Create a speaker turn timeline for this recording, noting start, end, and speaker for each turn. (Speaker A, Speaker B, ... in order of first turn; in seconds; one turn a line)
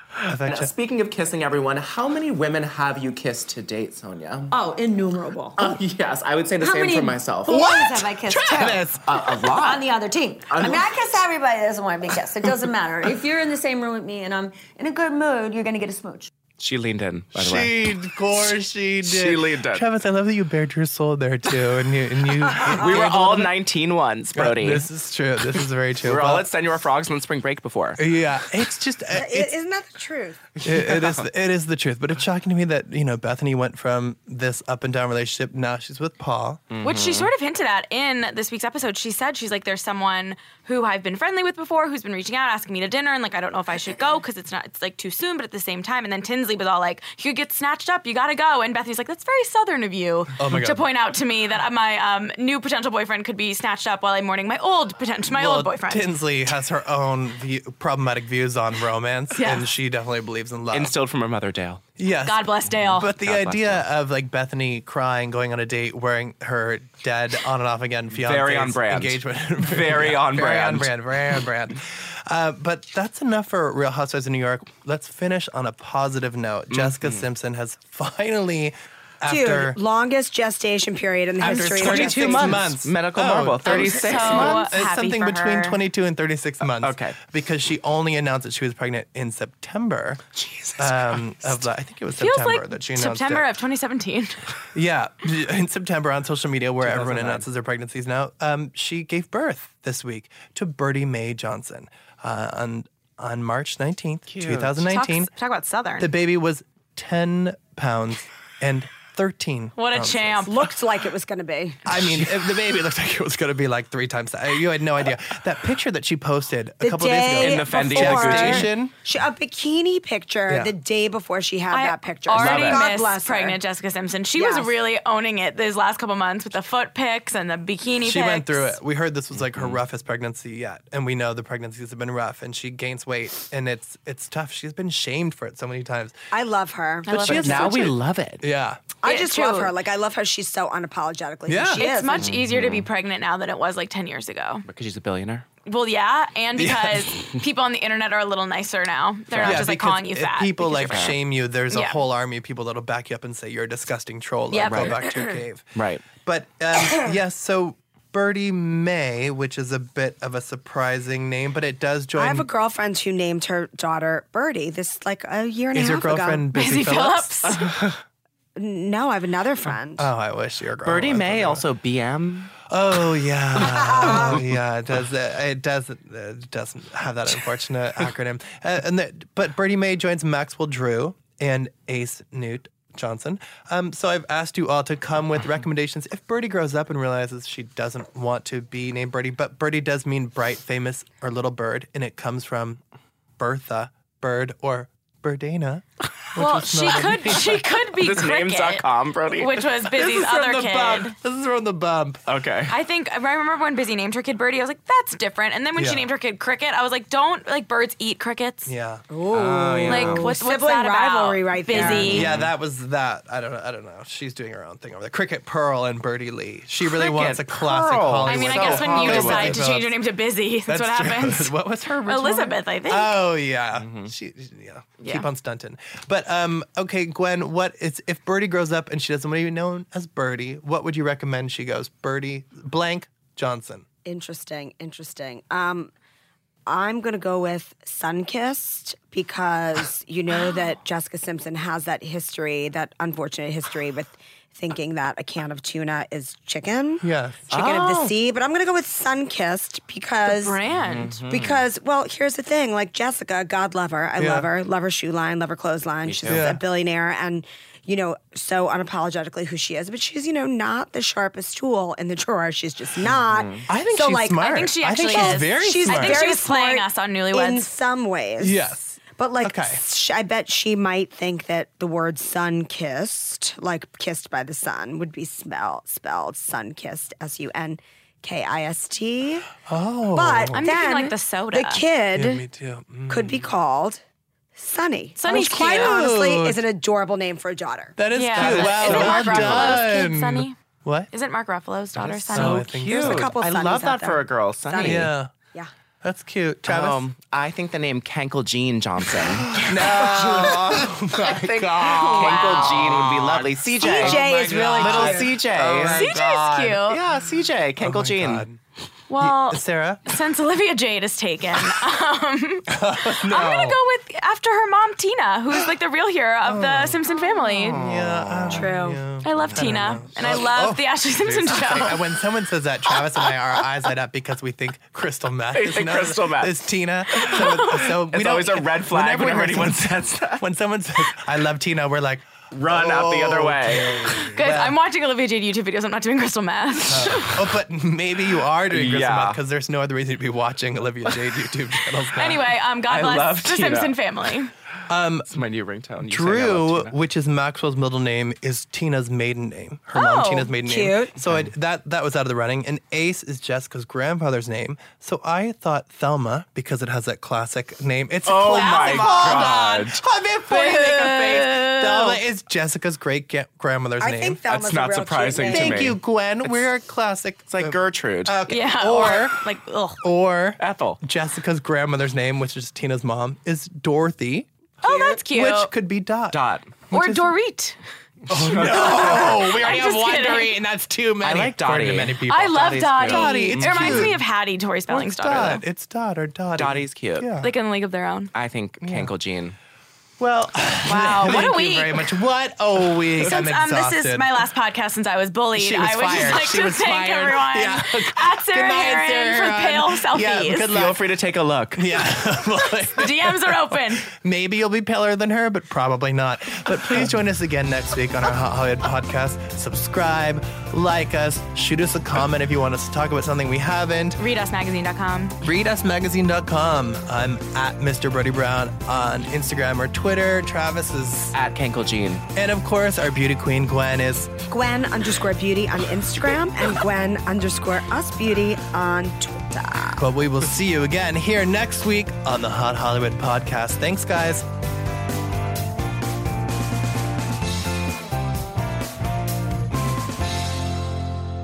Speaker A: 0.2-4.6
Speaker B: 0.2-0.7
Speaker C: 4.5-5.8
Speaker A: 5.6-9.9
Speaker C: 6.6-16.3
Speaker B: 7.5-9.1
Speaker A: 10.5-11.2
Speaker A: 16.6-17.8
Speaker B: 17.3-23.6
Speaker A: 19.0-19.9
Speaker A: 22.6-24.9
Speaker B: 24.4-26.5
Speaker A: 26.0-28.0
Speaker B: 28.0-29.5
Speaker D: 29.1-30.4
Speaker B: 30.6-36.6
Speaker A: 30.7-31.1
Speaker A: 36.7-37.3
Speaker E: 36.8-56.1
Speaker B: 50.4-50.9
Speaker B: 55.3-60.9
Speaker E: 59.4-59.7
Speaker A: 60.7-61.8
Speaker B: 62.0-79.8
Speaker E: 62.3-63.1
Speaker A: 62.9-63.9
Speaker A: 68.1-70.9
Speaker A: 76.7-77.2
Speaker D: 79.3-82.7
Speaker B: 81.4-90.2
Speaker A: 81.4-84.8
Speaker E: 83.7-85.8
Speaker A: 86.8-87.2
Speaker A: 90.4-91.6
Speaker B: 90.8-93.5
Speaker E: 92.1-94.4
Speaker B: 94.7-105.3
Speaker A: 96.8-97.5
Speaker A: 104.3-104.8
Speaker E: 104.9-106.1
Speaker B: 106.0-110.5
Speaker E: 109.8-110.5
Speaker D: 110.5-111.9
Speaker B: 111.8-118.9
Speaker D: 116.8-123.6
Speaker A: 117.4-118.7
Speaker B: 120.5-120.7
Speaker E: 121.7-128.7
Speaker A: 122.3-122.9
Speaker D: 124.3-124.8
Speaker B: 128.0-136.1
Speaker A: 129.3-129.8
Speaker D: 136.3-137.9
Speaker E: 137.1-137.8
Speaker B: 137.2-138.8
Speaker A: 137.2-138.4
Speaker D: 139.0-142.3
Speaker E: 139.1-139.7
Speaker B: 141.5-141.9
Speaker E: 141.7-144.7
Speaker A: 142.2-142.9
Speaker A: 144.7-145.5
Speaker E: 145.7-151.1
Speaker B: 146.6-147.1
Speaker A: 149.3-149.7
Speaker B: 149.4-155.7
Speaker A: 150.9-151.2
Speaker E: 151.7-152.0
Speaker E: 154.5-155.0
Speaker A: 154.7-155.0
Speaker A: 155.8-156.1
Speaker B: 156.2-162.5
Speaker D: 162.2-166.5
Speaker B: 165.7-167.4
Speaker E: 166.5-167.7
Speaker A: 167.6-168.0
Speaker D: 168.6-170.1
Speaker B: 169.6-171.6
Speaker A: 170.8-172.6
Speaker B: 172.7-192.8
Speaker D: 173.6-174.4
Speaker A: 174.0-174.4
Speaker B: 193.4-197.7
Speaker E: 196.4-201.1
Speaker A: 198.0-199.7
Speaker B: 199.9-202.2
Speaker A: 202.3-202.7
Speaker E: 202.7-208.7
Speaker B: 205.8-206.1
Speaker B: 208.7-209.1
Speaker D: 209.1-212.3
Speaker A: 209.3-210.3
Speaker E: 209.9-212.3
Speaker A: 211.7-212.5
Speaker B: 211.7-220.0
Speaker A: 216.9-219.6
Speaker E: 218.2-221.5
Speaker B: 220.7-233.9
Speaker E: 222.1-223.2
Speaker A: 223.8-224.1
Speaker D: 234.1-235.9
Speaker D: 236.7-250.6
Speaker B: 247.0-247.5
Speaker A: 247.5-248.2
Speaker E: 250.2-251.3
Speaker A: 250.7-251.6
Speaker D: 251.3-279.5
Speaker B: 254.2-254.5
Speaker A: 256.0-256.5
Speaker B: 256.3-256.6
Speaker A: 263.1-263.6
Speaker B: 263.7-266.3
Speaker E: 264.4-267.7
Speaker B: 268.4-269.8
Speaker B: 279.7-280.7
Speaker D: 280.1-282.4
Speaker E: 280.5-281.9
Speaker B: 282.1-283.5
Speaker D: 283.1-284.0
Speaker D: 284.6-288.0
Speaker E: 285.2-285.9
Speaker B: 285.3-286.6
Speaker B: 288.0-291.1
Speaker E: 288.1-290.6
Speaker A: 288.3-289.9
Speaker E: 291.1-292.7
Speaker A: 291.9-295.1
Speaker B: 292.3-293.3
Speaker D: 292.9-295.7
Speaker B: 294.8-295.3
Speaker B: 296.0-297.0
Speaker A: 296.6-306.1
Speaker B: 299.2-306.9
Speaker E: 301.3-303.0
Speaker D: 303.8-305.4
Speaker E: 305.8-307.0
Speaker A: 306.9-308.5
Speaker B: 307.8-308.6
Speaker E: 309.1-317.8
Speaker B: 309.2-310.1
Speaker B: 312.7-313.8
Speaker B: 316.4-317.0
Speaker A: 317.6-318.7
Speaker B: 317.8-334.8
Speaker D: 318.5-319.1
Speaker E: 319.2-322.0
Speaker A: 319.4-319.7
Speaker A: 325.5-330.4
Speaker E: 327.3-327.8
Speaker A: 332.5-334.2
Speaker E: 334.3-337.3
Speaker B: 336.9-342.5
Speaker A: 338.7-339.4
Speaker E: 342.1-344.5
Speaker A: 342.9-344.0
Speaker B: 344.9-345.3
Speaker A: 345.3-346.9
Speaker B: 346.0-364.4
Speaker E: 349.9-350.6
Speaker D: 350.6-351.2
Speaker A: 358.3-360.0
Speaker E: 358.5-359.9
Speaker E: 360.5-362.1
Speaker D: 364.0-366.0
Speaker A: 364.5-366.7
Speaker B: 365.5-369.4
Speaker A: 367.5-368.4
Speaker E: 368.5-370.0
Speaker B: 370.0-377.3
Speaker A: 370.6-371.0
Speaker E: 374.8-375.7
Speaker D: 374.9-375.2
Speaker A: 376.3-376.8
Speaker E: 376.9-377.8
Speaker B: 378.3-384.2
Speaker A: 378.4-379.4
Speaker E: 378.6-380.5
Speaker A: 381.2-382.2
Speaker E: 382.3-385.6
Speaker A: 382.9-384.2
Speaker B: 384.9-387.5
Speaker A: 386.6-387.3
Speaker E: 387.4-388.3
Speaker A: 388.3-389.6
Speaker B: 388.8-389.1
Speaker B: 390.2-394.4
Speaker E: 390.9-392.1
Speaker E: 393.2-400.8
Speaker B: 395.6-401.0
Speaker A: 400.7-402.0
Speaker B: 401.8-414.2
Speaker E: 402.9-404.1
Speaker E: 414.2-415.4
Speaker B: 415.4-421.4
Speaker A: 421.3-422.2
Speaker B: 422.3-424.3
Speaker D: 424.5-430.1
Speaker B: 430.0-434.5